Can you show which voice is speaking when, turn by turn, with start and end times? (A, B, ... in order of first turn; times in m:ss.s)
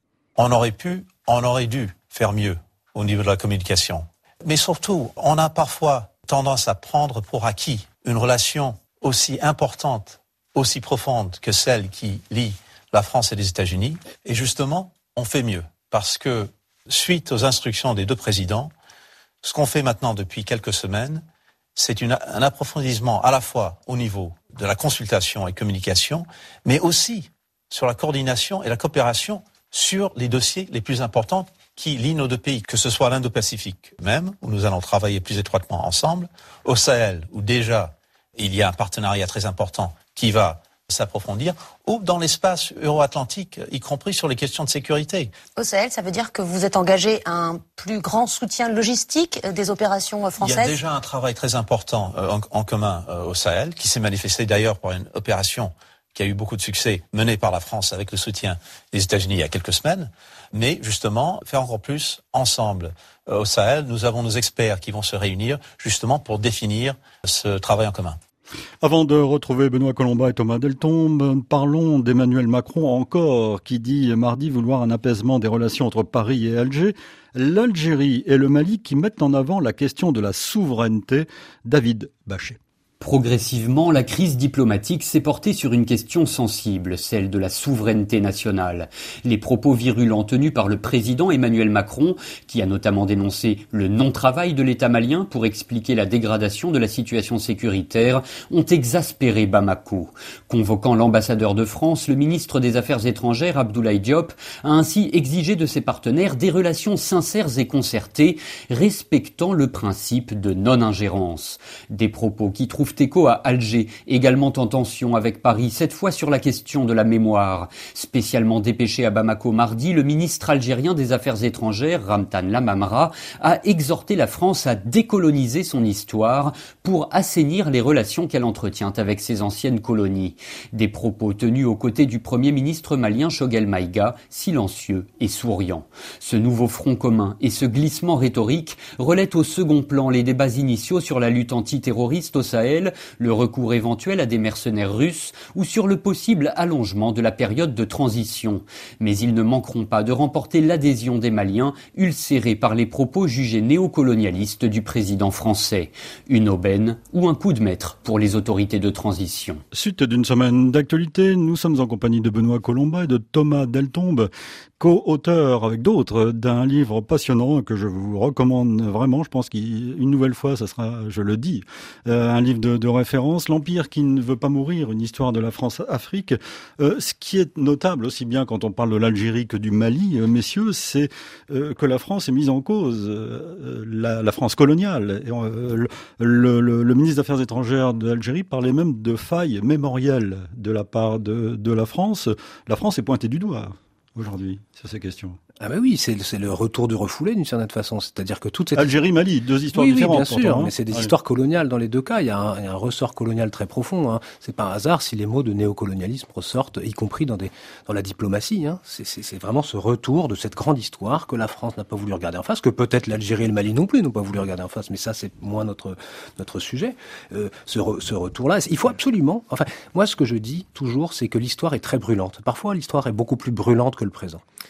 0:00.4-0:18.7 A
0:19.4-0:21.2 A
0:21.8-0:45.4 A
0:45.5-0:50.8 B
0:50.4-1:08.2 A
1:08.8-1:22.6 C
1:23.0-2:39.6 D
2:39.7-3:15.4 C
3:15.6-3:19.0 E
3:18.8-3:21.1 C
3:19.7-3:44.4 E